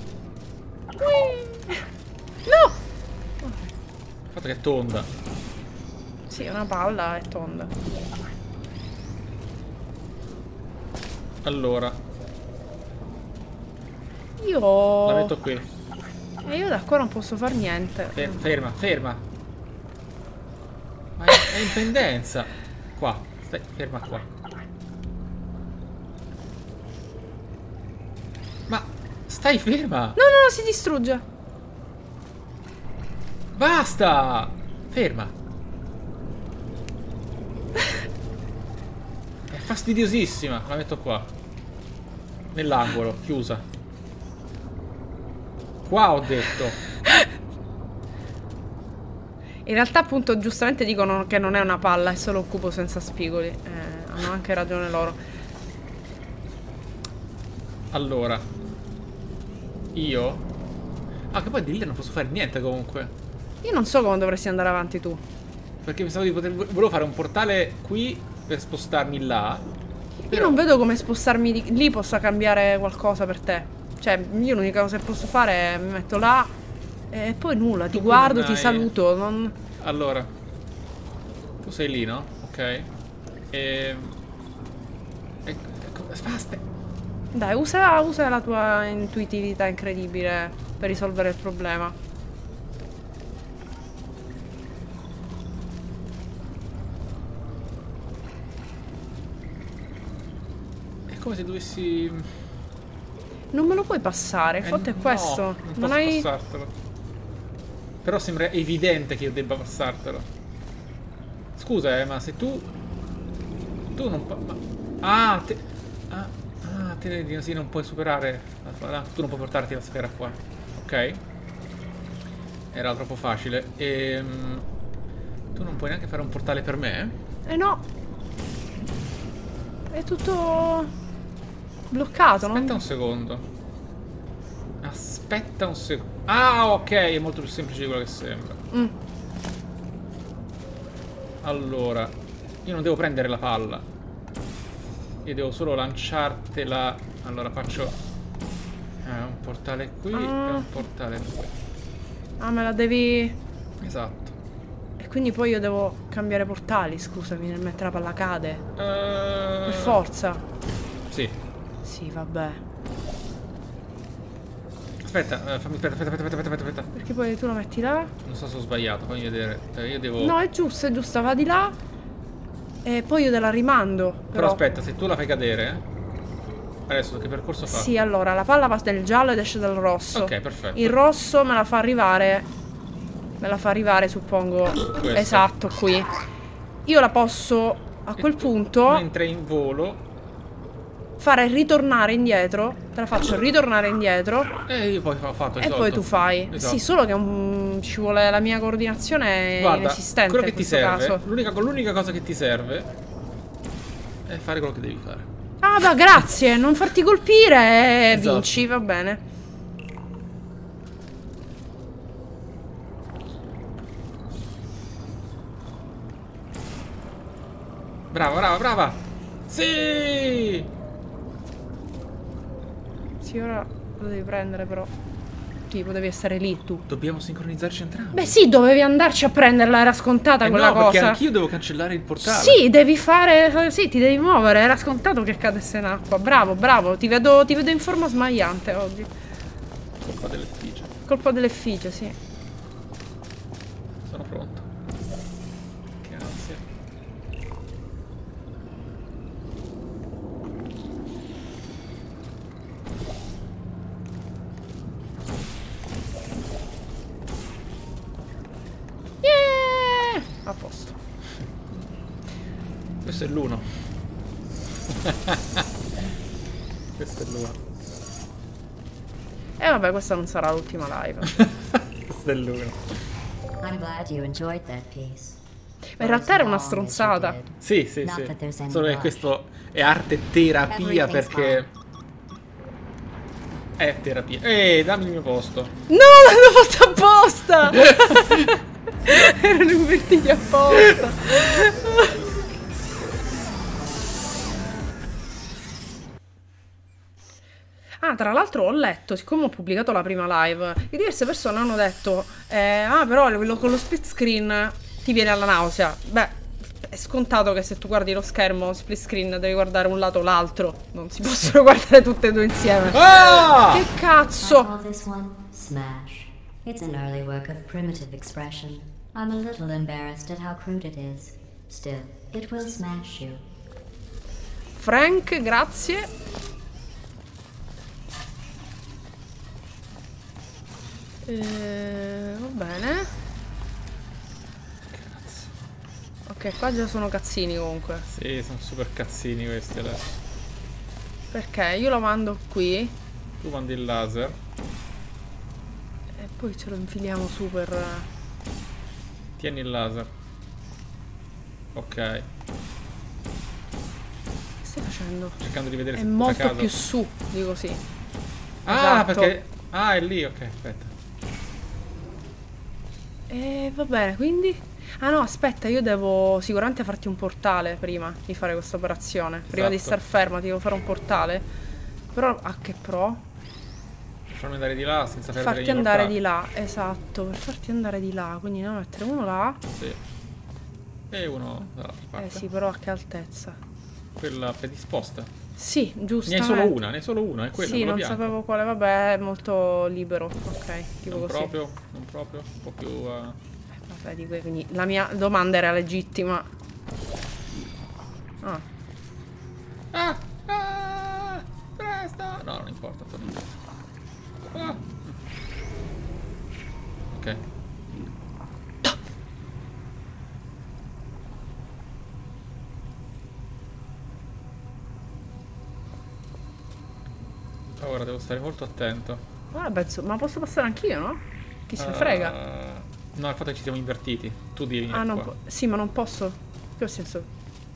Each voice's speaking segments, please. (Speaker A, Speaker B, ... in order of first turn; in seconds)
Speaker A: 1.0-1.8, 2.5-2.8, 3.4-3.7, 6.3-7.7, 14.4-15.3, 16.4-18.4, 30.2-31.2, 49.7-55.2, 63.6-65.2, 70.3-76.5, 77.1-79.6, 87.3-92.0, 103.5-106.3, 127.5-127.8, 129.9-130.9, 131.9-132.8, 150.1-150.7, 152.4-153.4, 155.0-158.6, 159.7-160.4, 161.8-162.6, 166.9-168.1, 170.2-171.8, 172.8-174.6, 177.7-182.5, 183.4-186.1, 186.9-189.0, 191.2-194.5, 195.6-201.2, 205.6-209.2, 223.2-224.9, 225.7-226.8, 228.1-231.2, 232.2-239.1, 241.1-242.2, 259.2-261.0, 269.6-271.5, 276.0-277.4, 285.9-292.2, 298.0-314.7, 324.8-326.1, 331.3-333.1, 336.3-338.1, 341.3-342.9, 346.2-348.1, 354.6-355.4, 355.9-357.8, 358.7-359.3, 363.3-371.5, 372.1-373.2, 375.3-379.6, 382.2-383.6, 385.6-386.8, 387.6-391.5, 393.9-396.5, 419.5-422.4, 424.9-427.3
Speaker B: 4.3-5.1, 11.4-12.0, 15.0-15.7, 18.1-19.2, 21.2-24.3, 28.7-30.2, 33.5-35.4, 39.5-41.3, 42.5-43.6, 45.9-46.8, 57.9-58.5, 59.9-60.5, 61.3-63.1, 65.8-69.7, 70.3-70.6, 77.9-78.9, 79.8-80.3, 81.6-82.9, 83.5-84.2, 85.5-86.6, 101.1-102.3, 104.6-106.7, 108.0-110.3, 111.6-112.7, 114.0-121.2, 122.7-124.7, 125.5-127.2, 132.5-133.5, 134.8-138.6, 141.4-143.9, 145.2-148.0, 149.0-151.6, 153.8-154.3, 158.8-160.0, 161.1-161.4, 165.0-166.9, 168.2-170.4, 174.3-175.8, 176.9-177.9, 180.1-181.0, 184.9-185.5, 188.2-190.1, 194.7-196.8, 199.6-202.9, 204.3-205.3, 208.1-208.6, 218.1-220.7, 226.9-228.4, 230.4-232.6, 240.0-240.9, 244.1-244.7, 246.0-246.7, 263.0-263.7, 264.9-265.7, 267.0-267.6, 271.4-273.0, 277.6-281.7, 283.8-285.7, 287.8-288.5, 312.9-313.9, 334.9-335.5, 338.1-340.2, 343.4-344.4, 349.4-350.1, 351.7-352.3, 355.4-356.7, 358.6-360.9, 369.5-370.0, 374.3-376.2, 379.7-380.0, 381.1-382.4, 384.2-385.3, 386.3-388.3, 391.0-393.4, 399.9-403.6, 404.5-405.2, 407.1-407.4, 417.8-419.2, 421.8-425.3
Speaker C: 273.6-275.4, 276.0-279.2, 280.7-281.7, 314.4-323.4